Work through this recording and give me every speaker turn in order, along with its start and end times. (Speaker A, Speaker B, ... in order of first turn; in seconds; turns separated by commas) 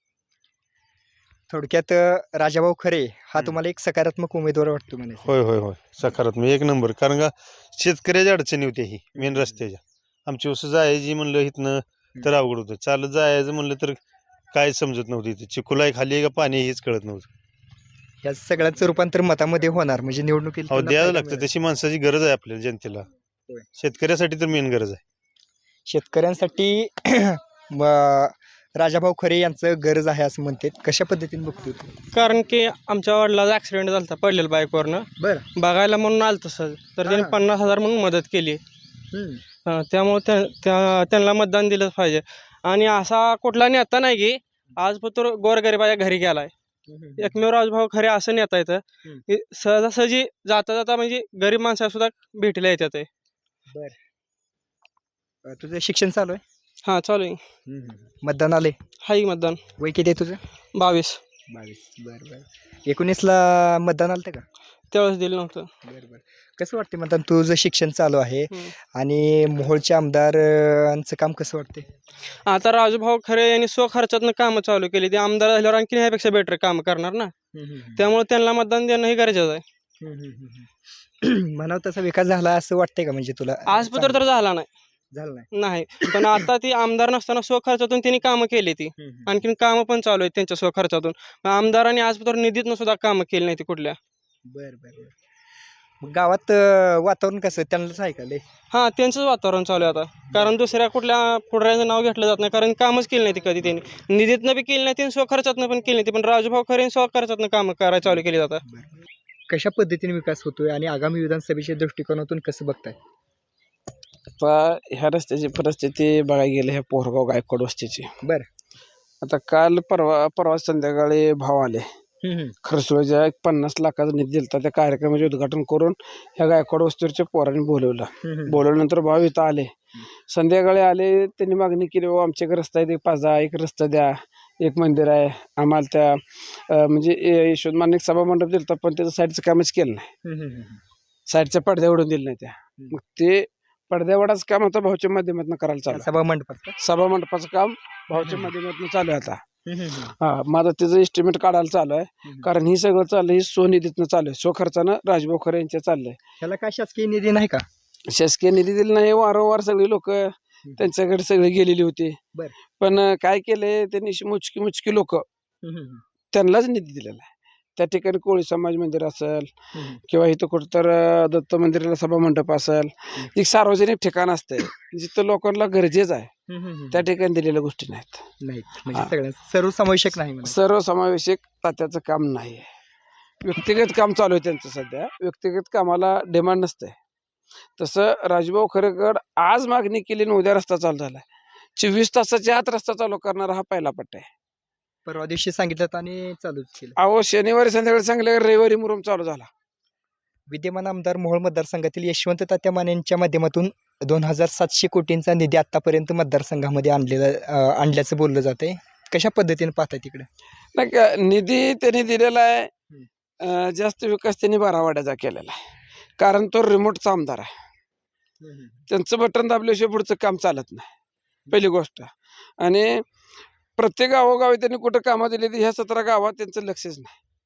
Speaker A: 1.5-5.3, Speaker B: 5.2-14.0, Speaker A: 9.2-9.6, Speaker B: 14.5-17.3, Speaker A: 18.2-21.5, Speaker B: 20.7-23.1, Speaker B: 23.8-25.0, Speaker A: 25.9-31.9, Speaker C: 32.1-38.6, Speaker A: 35.2-35.5, Speaker A: 37.0-37.4, Speaker A: 39.1-39.4, Speaker C: 39.6-46.5, Speaker A: 46.9-47.4, Speaker C: 47.2-53.1, Speaker A: 53.7-54.0, Speaker A: 55.5-56.4, Speaker C: 56.8-57.4, Speaker A: 57.7-58.8, Speaker C: 59.0-59.6, Speaker A: 59.8-60.4, Speaker C: 60.7-61.2, Speaker A: 61.5-64.4, Speaker C: 64.9-65.7, Speaker A: 65.8-71.8, Speaker C: 72.4-77.3, Speaker A: 77.5-78.0, Speaker C: 78.0-79.6, Speaker A: 80.0-80.7, Speaker A: 81.2-84.2, Speaker C: 83.7-84.7, Speaker A: 85.1-85.5, Speaker C: 85.5-94.0, Speaker A: 89.0-89.5, Speaker A: 94.5-95.1, Speaker A: 96.0-98.4, Speaker C: 98.7-108.6, Speaker A: 108.0-108.9, Speaker A: 109.5-113.0, Speaker D: 114.4-118.1, Speaker D: 119.2-121.8, Speaker A: 122.2-122.5, Speaker D: 122.6-129.7, Speaker A: 128.2-128.6, Speaker D: 130.3-140.1, Speaker A: 140.2-140.8, Speaker D: 141.3-146.1, Speaker A: 145.9-146.7, Speaker D: 146.8-149.4, Speaker A: 148.2-148.5, Speaker A: 149.7-150.1, Speaker D: 150.2-156.2, Speaker A: 152.2-152.5, Speaker A: 156.4-157.6, Speaker D: 158.1-162.2, Speaker D: 162.8-165.2, Speaker A: 165.6-166.0, Speaker D: 166.3-169.5, Speaker A: 169.7-170.0, Speaker D: 170.1-176.3, Speaker A: 176.5-177.1, Speaker D: 176.9-178.2, Speaker A: 178.4-180.6, Speaker D: 180.4-182.7, Speaker D: 183.4-186.9, Speaker D: 187.8-191.2, Speaker D: 191.8-194.3, Speaker A: 195.1-196.9, Speaker D: 197.0-199.5, Speaker A: 200.5-210.2, Speaker D: 210.7-212.7, Speaker D: 213.4-215.6, Speaker D: 216.2-217.5, Speaker A: 218.4-218.9, Speaker D: 218.9-220.9, Speaker D: 221.5-222.1, Speaker D: 222.6-222.9, Speaker D: 223.8-227.1